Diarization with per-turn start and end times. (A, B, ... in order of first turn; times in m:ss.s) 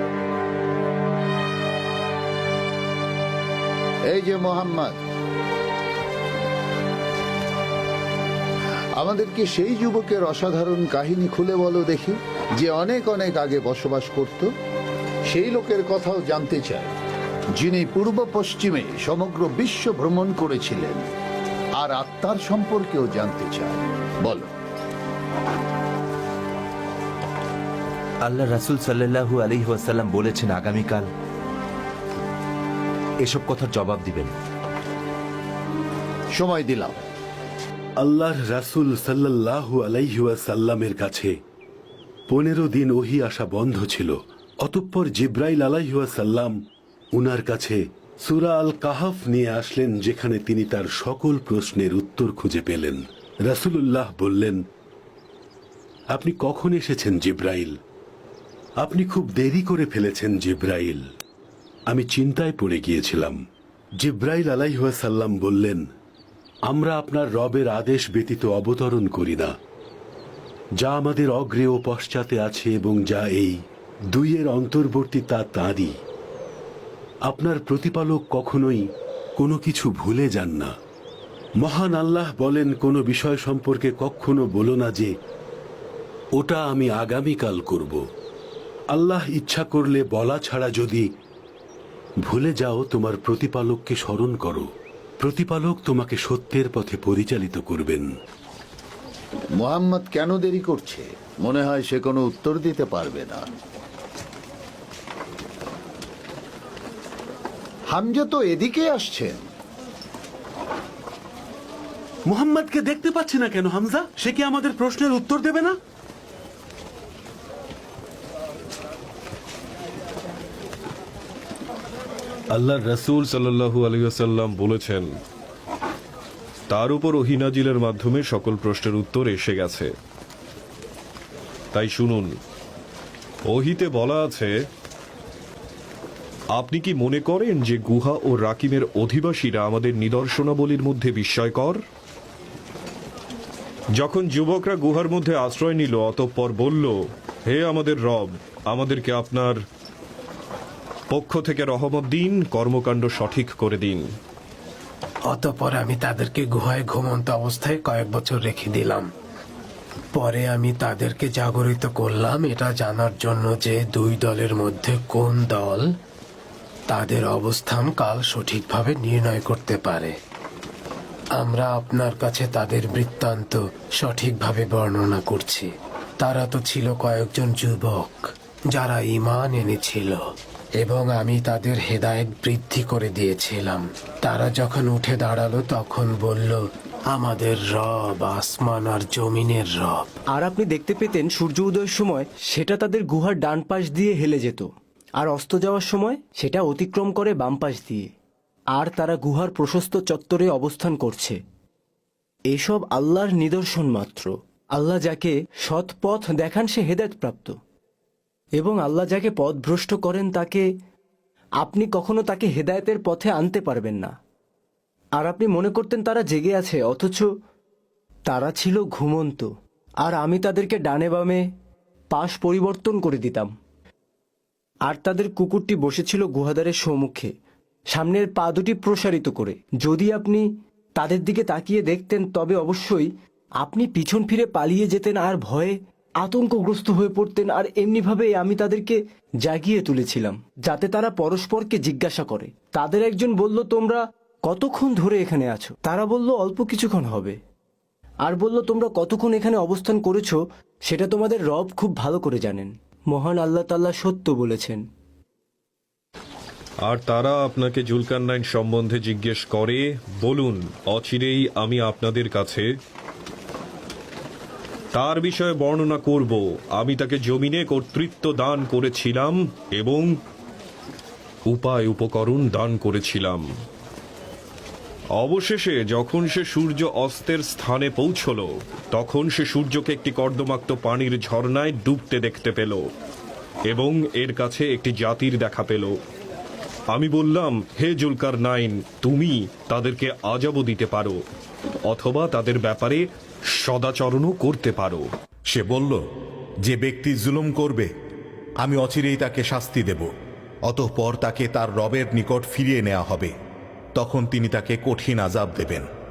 0:04.1-0:05.0 A
0:09.0-0:14.5 A
0:15.3-0:16.9 A
0:17.6-0:21.1 A
0:21.8-0:24.5 A
0:28.2-0:31.1 B
0:33.2-0:34.3 B
0:36.3-0:37.0 A
0:38.0-0:41.3 C
0:42.3-0:46.5 C
0:47.1-0:54.6 C
0:56.1-0:57.7 C
0:58.8-1:01.0 C
1:01.9-1:03.4 C
1:04.0-1:05.8 C
1:06.7-1:09.5 C
1:10.8-1:13.6 C
1:14.1-1:15.9 C
1:17.3-1:18.8 C
1:19.4-1:20.7 C
1:21.6-1:25.1 C
1:26.4-1:28.0 C
1:28.9-1:31.1 C
1:32.3-1:34.7 C
1:35.2-1:38.1 C
1:39.6-1:43.5 A
1:47.9-1:49.4 A
1:52.3-1:55.8 C
2:02.6-2:05.1 D
2:02.7-2:03.0 C
2:06.7-2:09.9 D
2:11.7-2:12.3 D
2:13.5-2:14.5 D
2:16.6-2:21.8 D
2:24.0-2:27.0 D
2:27.5-2:29.6 D
2:31.1-2:34.0 D
2:35.8-2:36.2 E
2:36.7-2:38.2 E
2:40.4-2:41.0 E
2:42.3-2:43.5 E
2:44.5-2:45.4 E
2:46.9-2:47.4 E
2:52.0-2:53.4 E
3:00.8-3:03.7 E
3:04.3-3:06.5 E
3:07.2-3:07.5 E
3:08.2-3:09.5 E
3:10.3-3:14.7 F
3:15.2-3:18.1 F
3:18.7-3:21.4 F
3:22.5-3:27.6 F
3:28.6-3:30.7 F
3:31.6-3:34.1 F
3:35.2-3:37.3 F
3:38.3-3:41.5 F
3:42.1-3:43.5 F
3:44.9-3:47.3 F
3:47.9-3:53.1 F
3:53.6-4:07.4 F
4:08.2-4:14.8 F
4:16.9-4:22.7 D
4:24.9-4:30.2 D
4:31.5-4:33.5 D
4:35.2-4:42.9 D
4:43.7-4:46.0 D
4:46.9-4:51.2 D
4:51.9-4:53.0 D
4:53.6-4:55.1 D
4:55.5-4:56.0 G
4:56.7-4:57.9 G
4:58.6-5:00.1 G
5:00.7-5:03.3 G
5:04.0-5:05.9 G